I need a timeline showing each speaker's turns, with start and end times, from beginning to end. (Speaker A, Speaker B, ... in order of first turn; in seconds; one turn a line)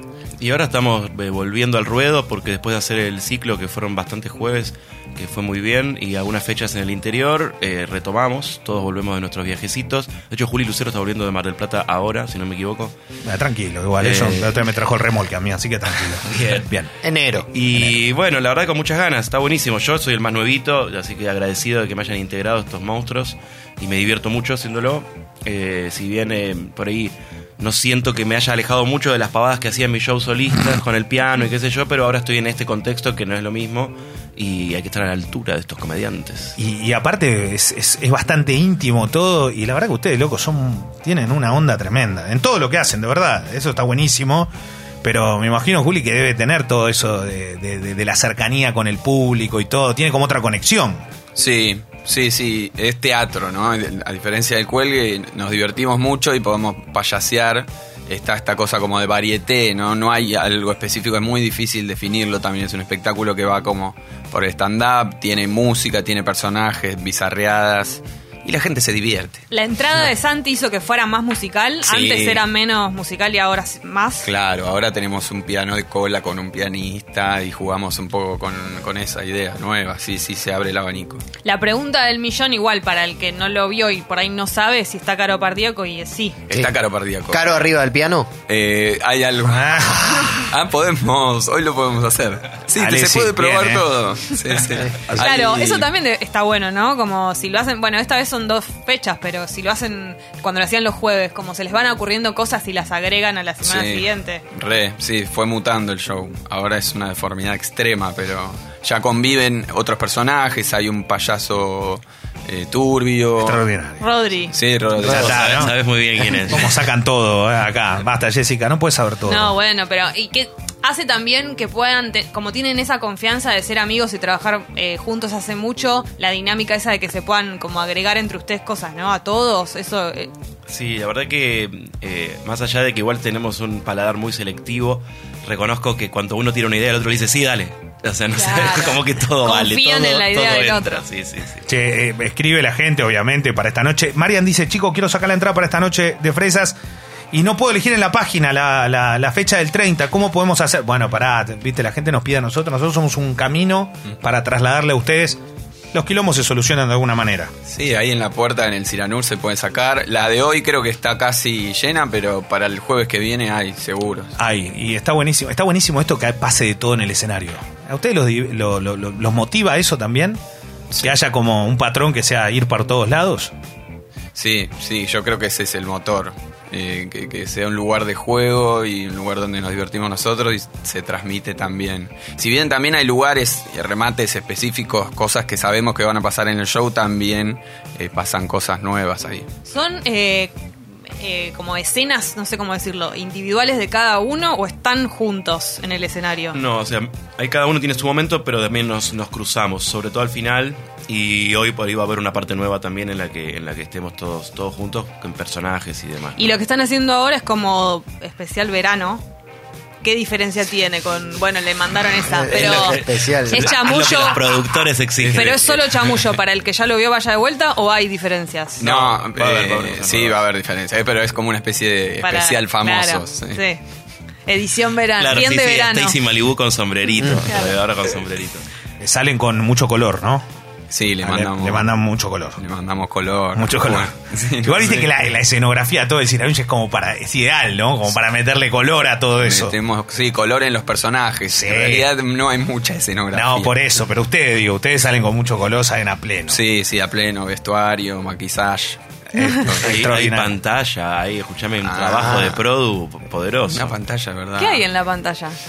Speaker A: 0.4-12.9
Speaker B: 13.2-17.9
Speaker A: 14.0-14.7
Speaker A: 16.1-16.6
Speaker C: 17.0-17.4
Speaker A: 17.5-36.6
Speaker B: 36.6-44.5
Speaker B: 45.0-51.0
Speaker D: 51.3-69.4
Speaker E: 69.5-74.3
Speaker D: 71.8-72.4
Speaker D: 74.2-81.2
Speaker E: 81.4-86.5
Speaker D: 86.5-87.6
Speaker C: 87.3-88.3
Speaker D: 88.5-95.9
Speaker B: 89.5-90.2
Speaker B: 92.8-93.8
Speaker B: 95.0-95.3
Speaker E: 95.1-104.4
Speaker D: 103.6-113.6
Speaker B: 113.4-114.0
Speaker E: 114.0-114.6
Speaker D: 114.5-115.7
Speaker A: 115.0-116.8
Speaker B: 115.1-115.7
Speaker B: 116.4-119.5
Speaker E: 119.2-130.3
Speaker A: 130.7-141.7
Speaker E: 138.3-141.1
Speaker B: 141.7-146.8
Speaker B: 147.3-155.4
Speaker B: 155.9-157.5
Speaker D: 157.6-164.3
Speaker B: 164.4-170.4
Speaker D: 170.9-171.2
Speaker B: 171.0-173.5
Speaker D: 174.3-189.5
Speaker E: 189.6-190.5
Speaker E: 191.2-196.6
Speaker A: 196.5-206.5
Speaker E: 206.3-209.2
Speaker E: 210.0-214.7
Speaker C: 212.3-213.7
Speaker A: 212.7-216.2
Speaker E: 215.3-218.9
Speaker D: 218.8-223.6
Speaker A: 218.8-220.4
Speaker E: 222.2-223.8
Speaker E: 224.5-226.2
Speaker A: 225.2-228.7
Speaker E: 227.4-227.8
Speaker B: 229.0-230.4
Speaker D: 230.9-232.0
Speaker B: 231.2-232.6
Speaker D: 232.6-235.1
Speaker B: 233.5-239.8
Speaker D: 239.4-243.8
Speaker B: 241.5-242.1
Speaker B: 243.3-246.6
Speaker D: 246.5-250.0
Speaker E: 249.3-249.7
Speaker B: 249.4-250.5
Speaker A: 249.7-254.0
Speaker D: 251.8-252.6
Speaker D: 253.7-254.9
Speaker E: 254.5-255.6